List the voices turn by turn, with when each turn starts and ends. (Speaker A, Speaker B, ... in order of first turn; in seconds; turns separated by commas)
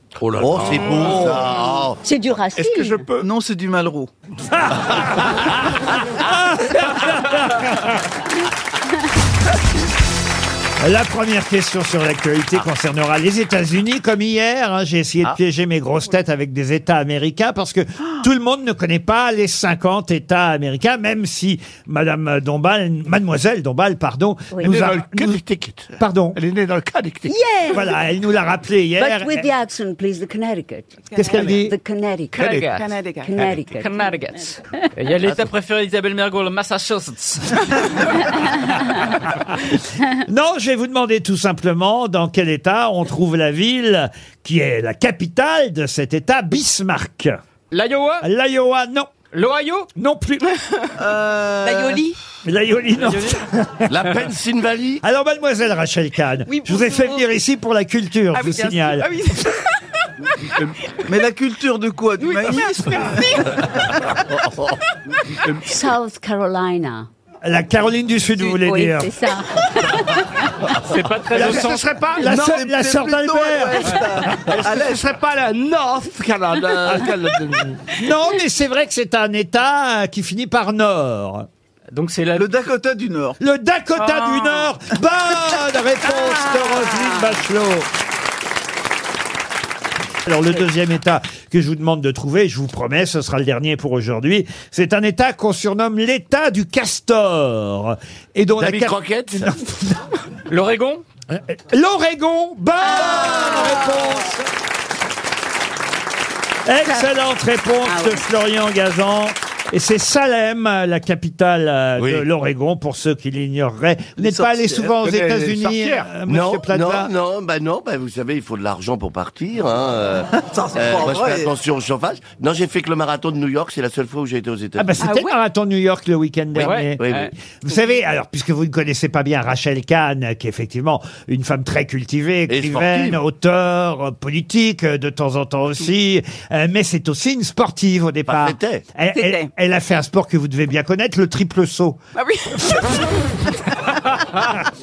Speaker A: 0.2-2.0, Speaker B: 0.4-1.5, Speaker C: 2.0-3.1, Speaker B: 2.5-3.3, Speaker D: 3.2-4.1, Speaker E: 4.6-5.4, Speaker E: 6.2-7.9, Speaker E: 10.8-25.4, Speaker C: 24.5-24.8, Speaker B: 24.6-27.3, Speaker E: 26.0-26.4, Speaker C: 27.3-28.0, Speaker E: 27.7-29.5, Speaker C: 29.0-32.7, Speaker F: 31.1-31.6, Speaker E: 31.1-31.7, Speaker G: 32.3-32.9, Speaker F: 32.4-33.4, Speaker C: 33.2-34.2, Speaker G: 33.4-38.0, Speaker E: 40.2-47.4, Speaker G: 47.7-48.2, Speaker E: 48.2-49.1, Speaker G: 49.3-49.9, Speaker E: 49.9-50.5, Speaker D: 51.0-52.0, Speaker F: 51.6-52.2, Speaker E: 52.5-53.9, Speaker G: 53.0-53.4, Speaker A: 53.9-55.0, Speaker E: 55.0-59.2, Speaker F: 56.5-57.2, Speaker F: 58.3-59.6, Speaker D: 61.0-63.9, Speaker F: 62.2-63.5, Speaker C: 65.6-67.1, Speaker E: 67.4-69.1, Speaker C: 68.4-70.7, Speaker G: 70.8-71.9, Speaker B: 71.3-72.6, Speaker E: 71.3-74.0, Speaker D: 72.2-75.0, Speaker B: 74.5-77.8, Speaker E: 78.0-81.5, Speaker G: 81.9-82.5, Speaker D: 82.3-83.4, Speaker E: 83.4-87.9, Speaker F: 84.0-84.7, Speaker E: 90.2-100.0, Speaker A: 98.6-99.5, Speaker G: 100.5-101.0, Speaker E: 101.3-104.5, Speaker E: 106.6-117.1, Speaker C: 107.8-108.2, Speaker A: 112.0-112.2, Speaker D: 114.2-114.9, Speaker B: 114.9-116.1, Speaker A: 116.3-125.0, Speaker D: 120.3-121.5, Speaker E: 124.8-127.0, Speaker F: 125.0-125.3, Speaker G: 126.6-127.3, Speaker A: 126.6-127.3, Speaker E: 127.6-142.0, Speaker A: 132.5-133.2, Speaker A: 138.3-138.8, Speaker F: 139.1-139.5, Speaker F: 142.1-143.0